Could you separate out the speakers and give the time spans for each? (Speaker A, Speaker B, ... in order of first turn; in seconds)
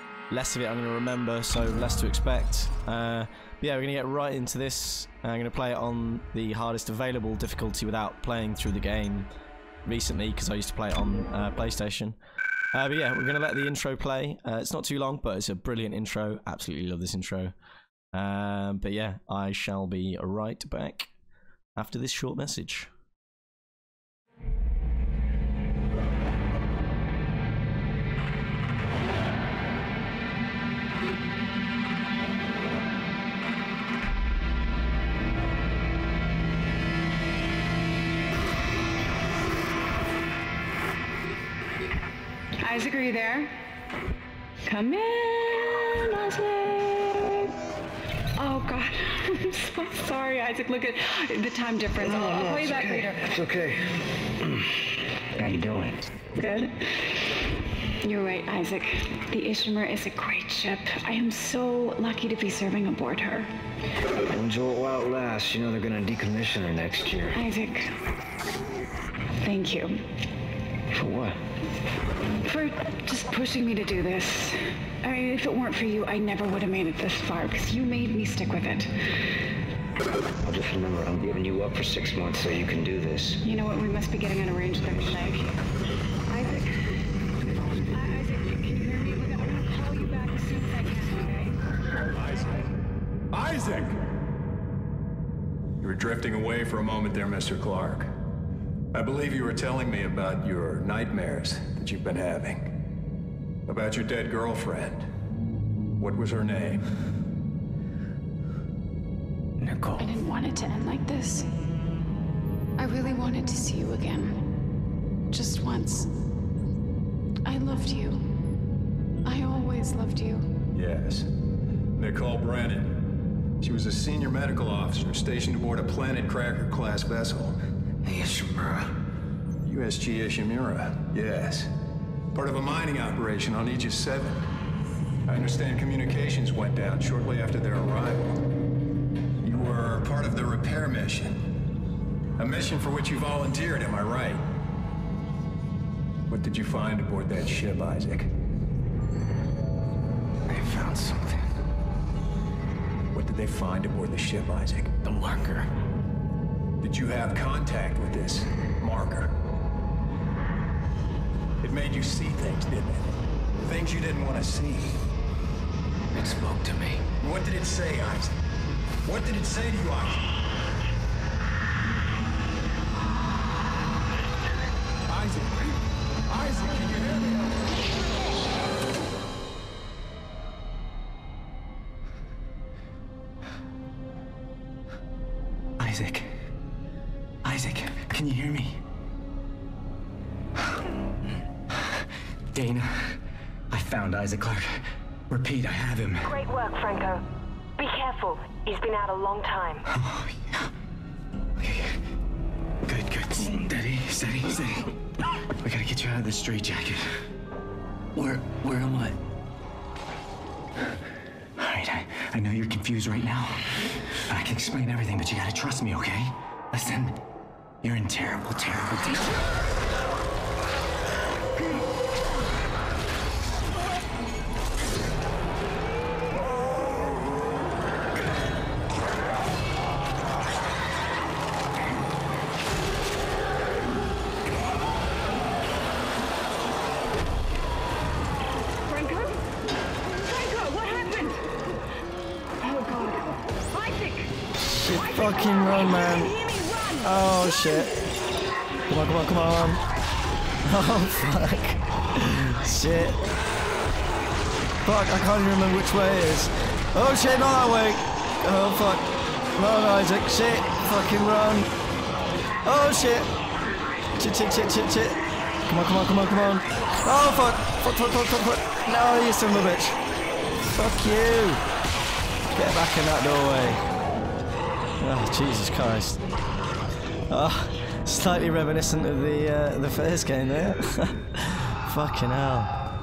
Speaker A: 0.3-9.3, 9.8-12.2, 12.7-17.5, 18.1-21.1, 21.8-22.9, 244.7-246.3, 247.0-247.9, 248.9-249.8, 250.6-253.2, 254.8-261.7, 262.6-263.3, 264.2-270.0, 270.7-271.6, 272.5-273.8, 275.0-276.2, 277.3-282.7
Speaker B: 42.6-43.5, 44.6-47.5, 48.4-53.4, 56.3-57.1, 58.0-63.5, 67.3-68.0, 69.4-70.0, 72.4-78.9, 83.4-85.5, 86.3-86.7, 87.9-91.6, 110.0-111.5, 112.8-114.4, 115.3-116.1, 117.4-118.2, 119.2-120.5
Speaker C: 52.0-53.8, 55.3-56.2, 64.3-67.4, 70.9-71.4, 80.4-83.4
Speaker D: 92.2-92.5, 93.3-94.0, 95.8-98.1, 98.9-102.7, 103.7-105.0, 106.0-106.9, 120.7-121.3, 122.0-123.0, 123.6-127.6, 129.6-131.7, 132.3-134.5, 135.3-138.4, 139.4-141.4, 142.4-144.4, 146.3-148.3, 153.1-154.9, 156.8-159.3, 161.6-165.0, 167.2-168.3, 169.0-170.3, 175.1-175.7, 176.3-177.6
Speaker E: 109.6-110.1, 128.0-128.9, 150.5-151.5, 155.0-155.7, 166.1-167.0, 185.8-186.3, 187.4-188.8, 192.5-193.2, 193.7-196.3, 199.9-200.7, 201.6-201.9, 202.8-205.0, 205.6-207.2, 208.1-209.2, 211.6-217.2, 217.8-219.3
Speaker F: 196.2-197.2, 197.8-199.8, 238.8-239.4, 240.0-241.4, 242.6-244.3, 244.9-247.8